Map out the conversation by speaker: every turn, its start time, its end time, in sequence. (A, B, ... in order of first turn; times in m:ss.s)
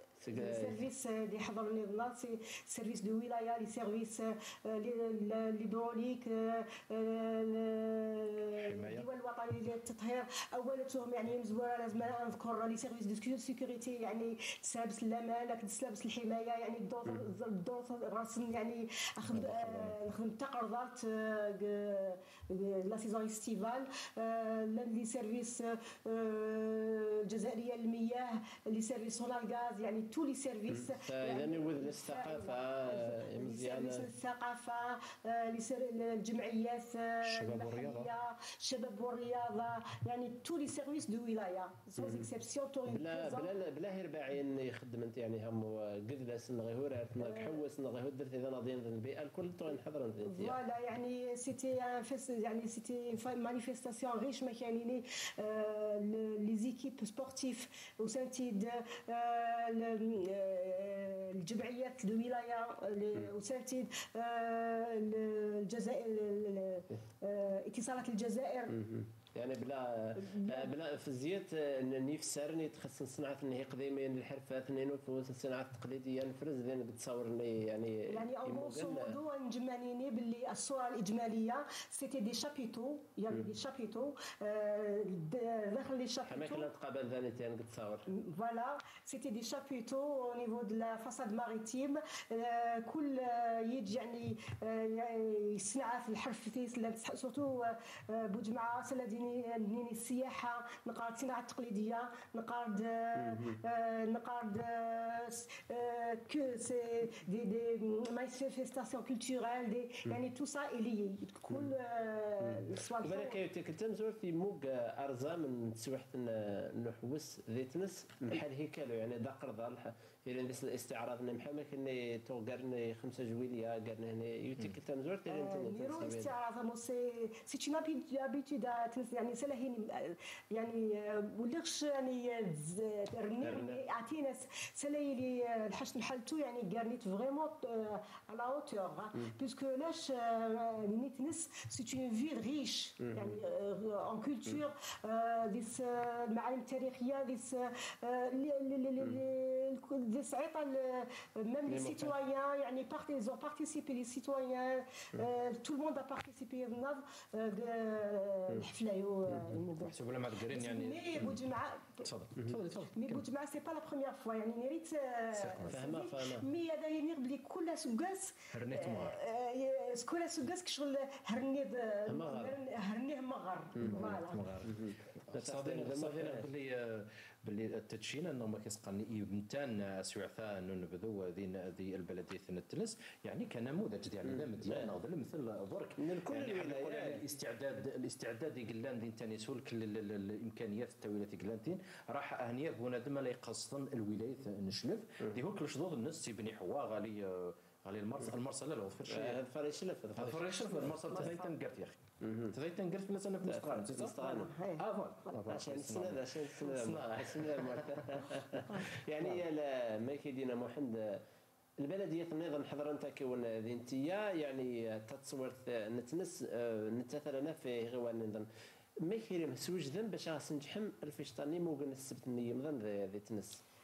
0:00.2-0:00.8 A
0:00.3-0:43.5 B
0:08.6-0:09.1 C
0:19.4-0:19.9 C
0:30.7-0:34.1 A
0:37.2-0:38.1 C
0:42.0-0:42.3 A
0:42.9-0:50.6 A
0:47.2-0:47.6 B
0:50.3-1:08.8 B
1:08.7-1:19.2 A
1:10.2-1:10.7 B
1:18.1-1:26.7 B
1:26.2-1:28.1 A
1:28.1-1:53.4 B
1:43.2-1:43.6 A
1:52.4-2:06.4 A
2:05.3-2:40.0 B
2:13.4-2:13.8 A
2:23.0-2:23.4 A
2:31.7-2:32.2 A
2:39.3-2:39.6 A
2:39.8-2:41.4 C
2:40.5-2:42.1 B
2:42.0-2:43.2 C
2:42.9-2:54.4 B
2:45.3-2:45.9 C
2:45.7-2:46.5 A
2:48.5-2:49.2 C
2:52.1-2:52.6 A
2:53.8-2:56.5 A
2:53.8-2:54.8 C
2:55.3-3:19.4 C
3:04.2-3:04.9 A
3:06.0-3:07.2 A
3:19.1-3:21.4 A
3:20.2-3:28.2 C
3:21.2-3:21.5 B
3:22.2-3:22.5 A
3:23.5-3:24.6 A
3:24.5-3:24.8 B
3:25.5-3:31.2 A
3:31.8-3:38.5 A
3:39.0-3:43.6 A